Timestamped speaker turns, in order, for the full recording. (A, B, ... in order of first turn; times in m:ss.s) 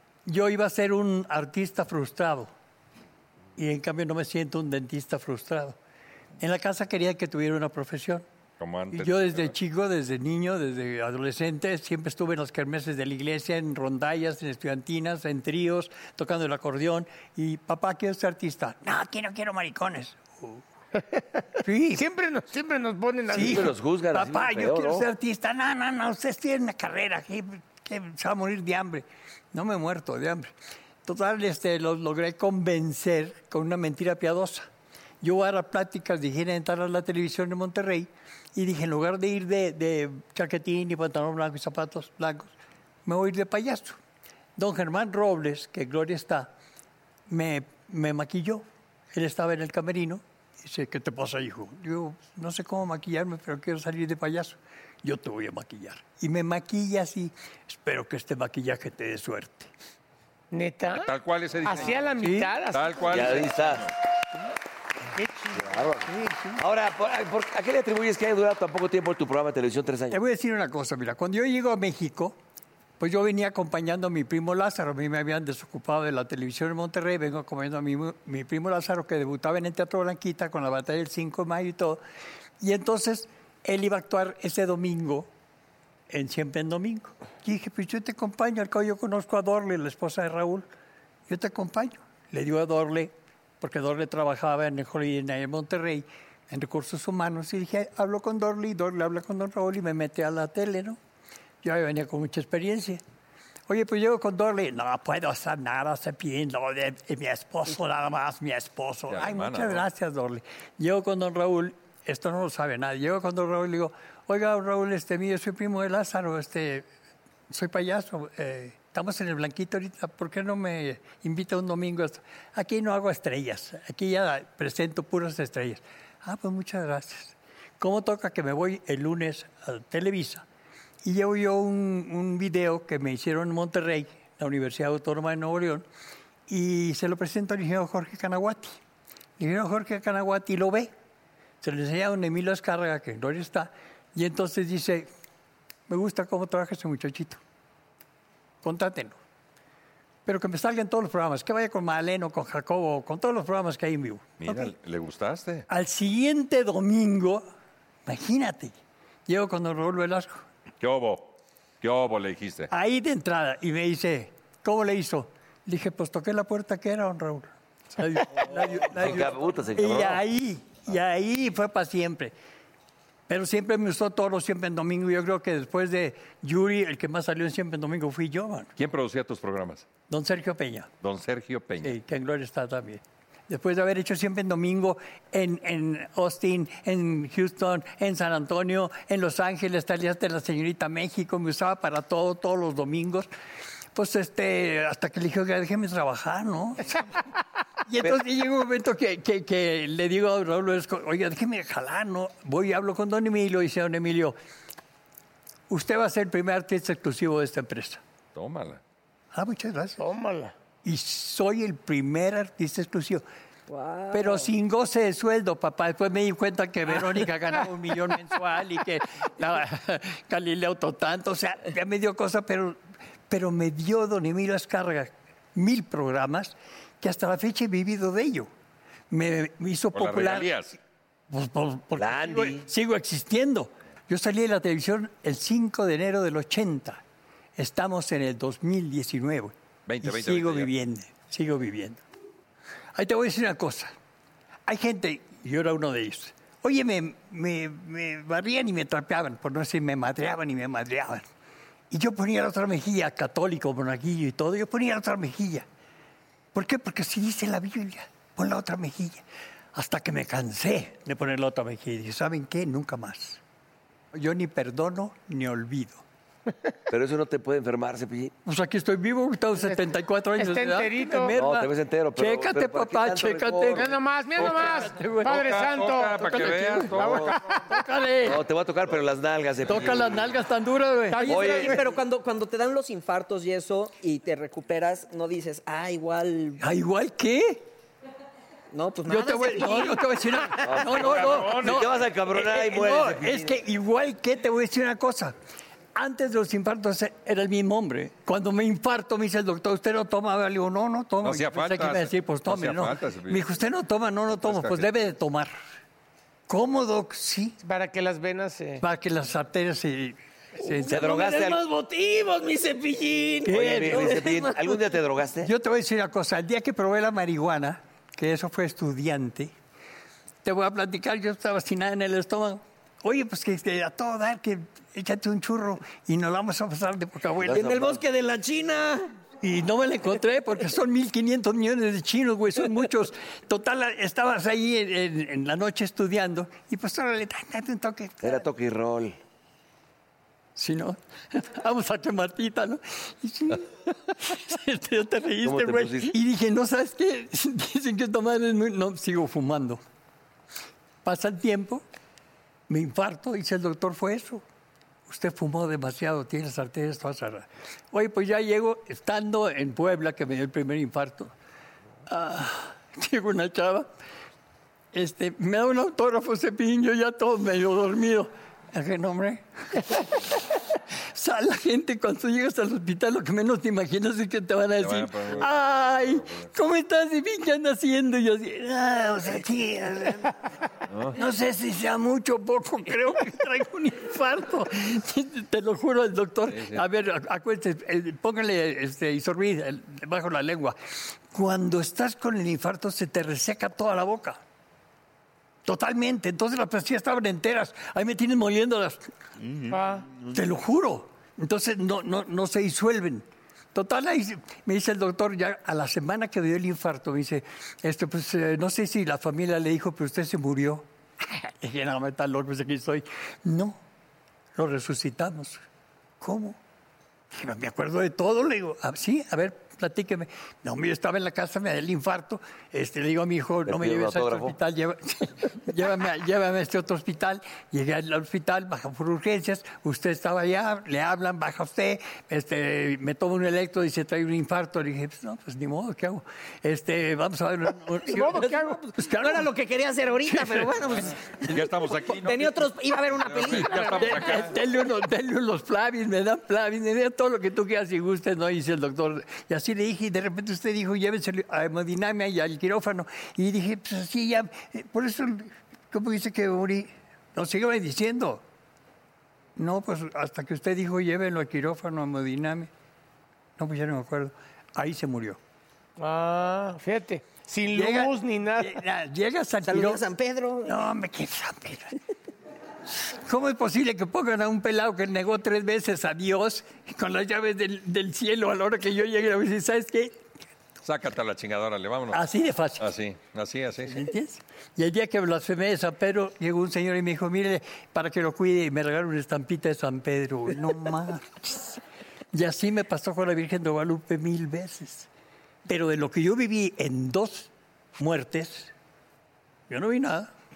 0:00.2-0:02.5 A
0:03.6-0:05.8 A
0:06.4-0:08.2 A
0:08.6-0:09.5 B
0:08.9-0:20.6 A
0:21.6-0:22.0 A
0:21.9-0:23.6 C
0:23.3-0:30.5 A
0:23.3-0:25.1 D
0:31.0-0:34.7 A
0:35.2-0:42.5 A
0:43.0-0:44.0 A
0:44.6-0:46.5 A
0:47.3-0:59.7 A
1:00.5-1:01.1 C
1:01.0-1:02.1 B
1:01.6-1:03.5 C
1:02.2-1:02.5 A
1:02.7-1:03.9 B
1:03.1-1:03.9 D
1:05.2-1:05.6 C
1:05.5-1:10.2 D
1:06.1-1:06.6 A
1:10.1-1:12.4 A
1:13.0-1:22.0 A
1:22.6-1:25.3 A
1:26.1-1:30.6 A
1:31.3-1:41.0 A
1:41.6-1:43.0 A
1:43.7-1:56.9 A
1:49.1-1:49.9 B
1:57.5-2:10.4 A
2:11.0-2:15.8 A
2:16.5-2:18.8 A
2:19.4-2:20.9 A
2:21.6-2:25.1 A
2:25.9-2:27.4 A
2:28.6-2:29.2 A
2:30.2-2:34.7 A
2:34.4-2:35.6 B
2:35.7-2:37.4 A
2:38.0-2:38.7 A
2:39.3-2:40.4 A
2:40.8-2:42.7 B
2:42.7-2:52.3 A
2:48.5-2:50.2 D
2:53.3-2:58.7 A
2:58.8-2:59.9 B
3:00.1-3:00.9 A
3:01.0-3:02.0 B
3:01.8-3:13.3 A
3:13.9-3:17.0 A
3:17.9-3:24.4 A
3:25.7-3:28.0 A
3:28.3-3:28.8 B
3:29.3-3:30.0 A
3:30.0-3:30.5 C
3:30.8-3:33.2 A
3:33.7-3:34.5 E
3:34.1-3:48.5 A
3:49.1-3:50.6 A
3:49.9-3:50.8 B
3:51.3-3:57.0 A
3:51.9-3:52.7 D
3:57.6-4:02.0 A
3:59.8-4:00.7 B
4:02.9-4:03.9 A
4:04.6-4:11.2 A
4:11.9-4:15.6 A
4:16.5-4:23.4 A
4:24.1-4:26.0 A
4:26.9-4:28.3 D
4:28.4-4:35.5 A
4:29.5-4:31.3 C
4:31.3-4:33.9 D
4:33.7-4:37.8 C
4:35.2-4:37.6 B
4:36.2-4:37.0 A
4:36.9-4:37.3 D
4:37.7-4:38.4 A
4:38.2-4:40.3 D
4:39.7-4:41.8 A
4:41.1-4:41.8 C
4:41.2-4:46.6 E
4:41.3-4:41.8 D
4:46.6-4:47.6 A
4:48.7-4:50.0 E
4:49.0-4:55.3 A
4:50.6-4:53.6 D
4:50.9-4:51.8 B
4:55.9-5:05.5 A
5:01.2-5:03.5 B
5:04.3-5:04.9 B
5:06.5-5:07.6 A
5:07.6-5:08.8 C
5:08.8-5:11.1 A
5:10.9-5:11.6 D
5:11.0-5:11.4 C
5:13.4-5:14.3 A
5:13.4-5:14.5 E
5:13.5-5:15.5 D
5:15.4-5:19.5 A
5:20.4-5:27.8 A
5:27.4-5:28.0 D
5:27.5-5:29.1 E
5:29.4-5:38.4 A
5:38.2-5:39.2 D
5:40.6-5:49.8 A
5:45.4-5:46.1 D
5:51.0-5:51.8 A
5:52.7-5:54.4 A
5:55.1-6:01.3 A
6:02.1-6:03.9 A
6:04.9-6:10.4 A
6:11.1-6:20.3 A
6:14.8-6:16.5 B
6:20.9-6:21.2 B
6:21.1-6:30.8 A
6:26.5-6:26.8 B
6:31.3-6:34.4 A
6:35.6-6:39.1 A
6:39.7-6:40.0 C
6:40.3-6:53.8 A
6:54.6-6:55.6 A
6:56.2-6:56.6 A
6:57.3-7:19.5 A
7:03.6-7:04.6 D
7:18.1-7:18.8 C
7:19.0-7:24.4 E
7:20.2-7:20.8 A
7:21.5-7:24.5 B
7:23.5-7:38.4 A
7:39.6-7:42.7 A
7:43.6-7:45.4 A
7:46.0-7:48.8 C
7:47.7-7:50.0 A
7:49.6-7:50.7 E
7:50.6-7:52.0 A
7:53.2-8:00.2 A
8:00.8-8:02.2 B
8:02.1-8:02.9 A
8:02.8-8:04.0 B
8:03.8-8:11.8 A
8:12.3-8:15.1 A
8:15.6-8:18.7 A
8:19.7-8:20.3 A